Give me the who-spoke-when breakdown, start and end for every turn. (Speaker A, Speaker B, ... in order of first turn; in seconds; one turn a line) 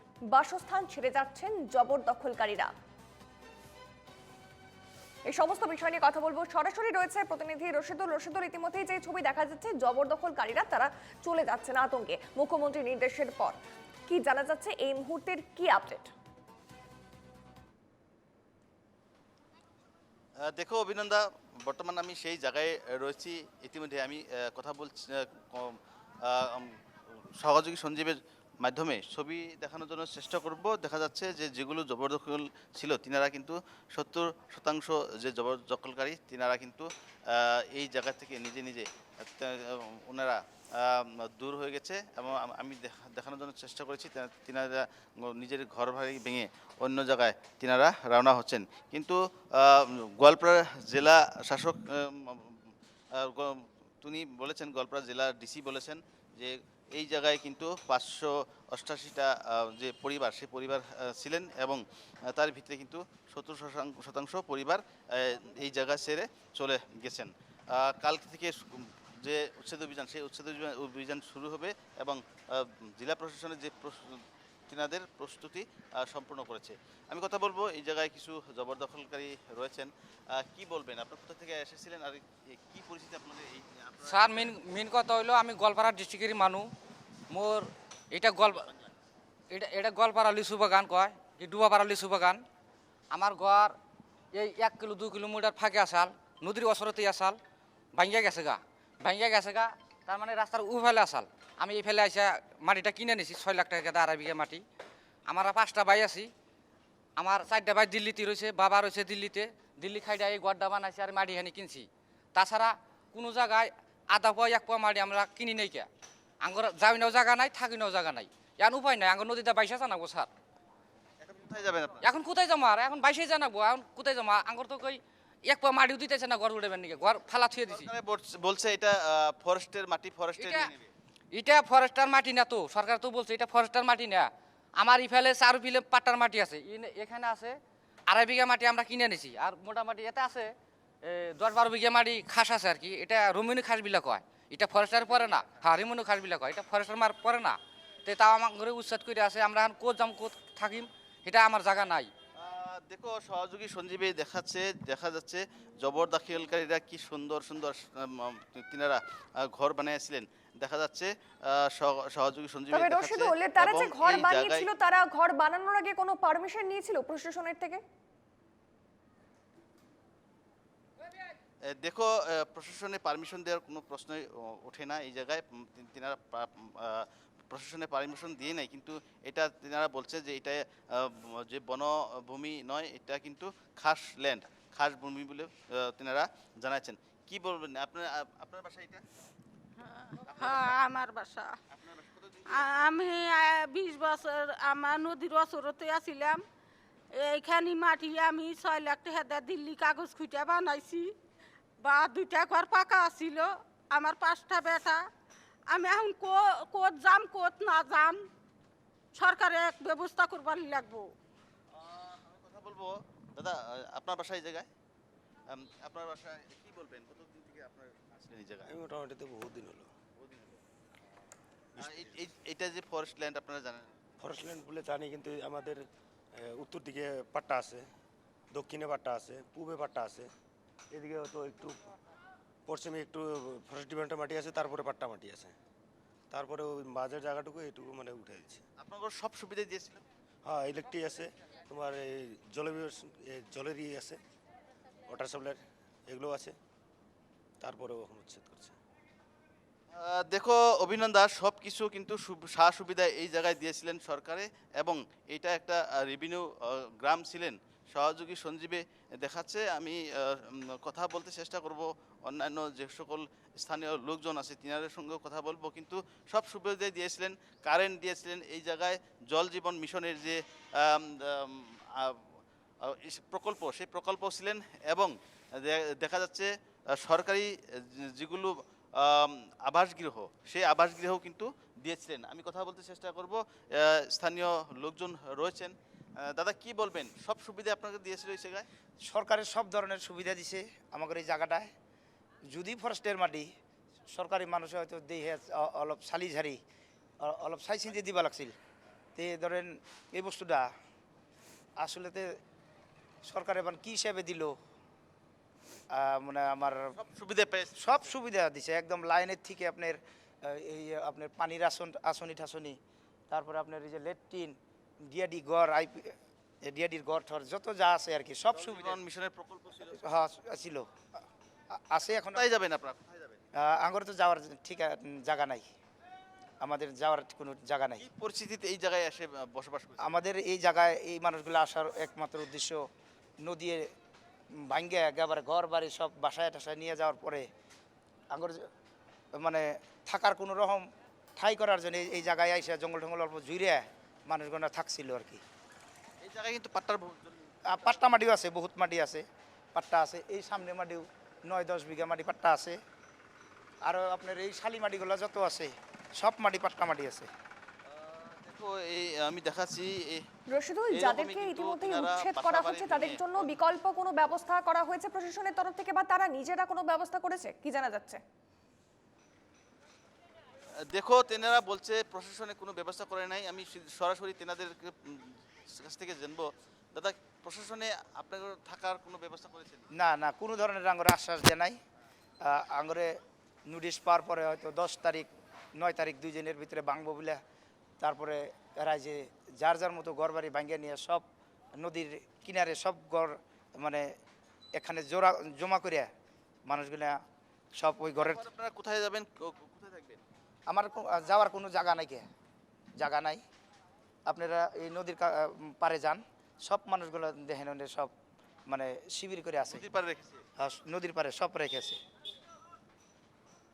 Speaker A: 0.3-2.7
Speaker A: 5.3-16.1
Speaker B: 20.5-26.7
Speaker B: 27.4-52.5
Speaker B: 53.2-84.6
Speaker C: 84.0-86.7
Speaker C: 87.3-88.7
Speaker C: 89.5-92.4
Speaker C: 93.1-93.7
Speaker C: 94.3-97.4
Speaker C: 97.9-104.6
Speaker C: 105.3-106.3
Speaker C: 107.2-115.9
Speaker C: 116.4-120.3
Speaker B: 121.2-122.0
Speaker C: 122.0-127.9
Speaker B: 127.6-130.9
Speaker C: 130.4-130.7
Speaker C: 131.3-137.6
Speaker C: 138.1-152.1
Speaker B: 152.4-159.0
Speaker B: 159.5-164.7
Speaker A: 162.7-167.8
Speaker B: 171.8-189.0
Speaker D: 189.8-191.6
Speaker B: 190.3-190.7
Speaker B: 191.7-192.8
Speaker D: 192.5-196.4
Speaker D: 197.1-201.1
Speaker D: 201.8-205.1
Speaker D: 205.7-208.3
Speaker D: 209.1-211.1
Speaker B: 211.7-214.7
Speaker B: 215.5-218.7
Speaker E: 218.6-219.9
Speaker B: 220.2-220.6
Speaker E: 221.8-222.1
Speaker B: 221.8-223.8
Speaker E: 224.2-225.8
Speaker E: 226.4-227.9
Speaker E: 228.5-230.3
Speaker E: 230.9-231.9
Speaker E: 232.7-235.5
Speaker E: 236.3-238.6
Speaker B: 238.8-240.0
Speaker E: 240.4-244.2
Speaker E: 245.1-246.6
Speaker E: 247.6-248.7
Speaker B: 250.0-272.2
Speaker B: 272.8-276.5
Speaker B: 277.0-285.7
Speaker B: 286.2-288.7
Speaker F: 289.1-291.7
Speaker F: 292.5-293.4
Speaker F: 294.1-296.6
Speaker F: 297.2-298.5
Speaker F: 299.1-300.7
Speaker F: 301.8-302.3
Speaker F: 303.2-304.6
Speaker F: 305.9-306.9
Speaker B: 307.0-307.8
Speaker F: 307.8-312.8
Speaker F: 313.3-314.6
Speaker F: 315.1-319.0
Speaker B: 318.5-320.0
Speaker F: 319.9-320.9
Speaker F: 321.9-322.5
Speaker B: 322.3-323.4
Speaker F: 323.6-325.6
Speaker F: 326.6-328.1
Speaker B: 328.0-330.2
Speaker F: 330.0-332.8
Speaker F: 333.4-333.8
Speaker F: 334.6-337.4
Speaker F: 338.3-338.6
Speaker F: 339.4-340.8
Speaker F: 341.4-345.4
Speaker B: 346.2-348.0
Speaker F: 347.7-352.8
Speaker F: 353.8-357.3
Speaker B: 357.9-360.2
Speaker A: 360.5-368.2
Speaker B: 360.9-363.5
Speaker B: 370.9-379.9
Speaker F: 379.9-381.8
Speaker F: 382.4-387.4
Speaker F: 388.0-391.2
Speaker F: 391.8-394.1
Speaker F: 394.7-396.1
Speaker F: 396.6-397.2
Speaker F: 397.7-398.4
Speaker B: 398.2-400.2
Speaker F: 400.7-402.2
Speaker F: 403.0-403.4
Speaker F: 404.3-408.1
Speaker F: 408.7-409.9
Speaker B: 409.6-410.4
Speaker F: 410.6-412.0